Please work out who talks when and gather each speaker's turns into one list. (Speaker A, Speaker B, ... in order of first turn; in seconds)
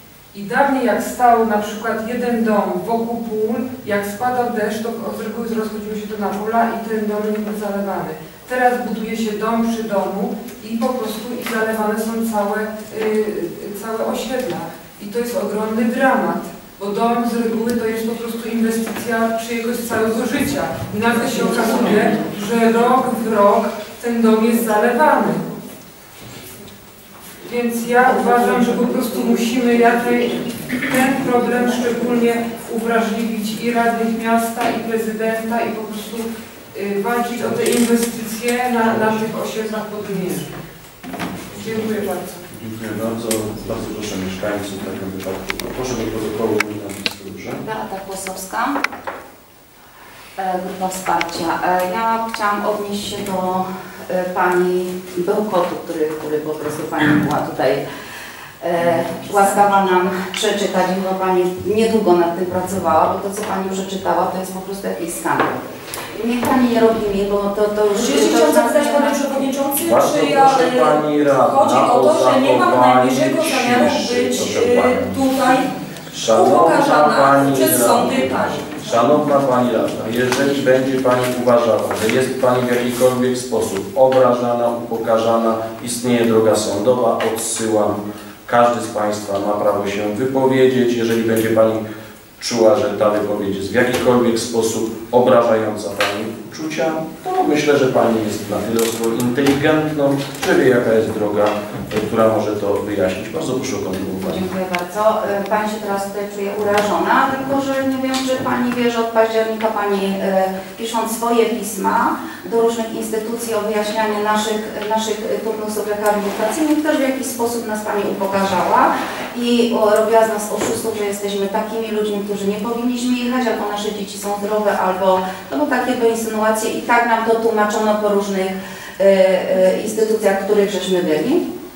Speaker A: 0.3-25.4, 27.4-40.5, 41.5-42.4
Speaker B: 42.5-47.6, 69.8-75.2, 76.1-91.8, 92.4-104.4
Speaker C: 47.6-48.8, 50.4-57.8, 58.6-65.6, 66.1-69.2, 104.2-131.4
Speaker D: 67.9-75.7, 76.3-78.7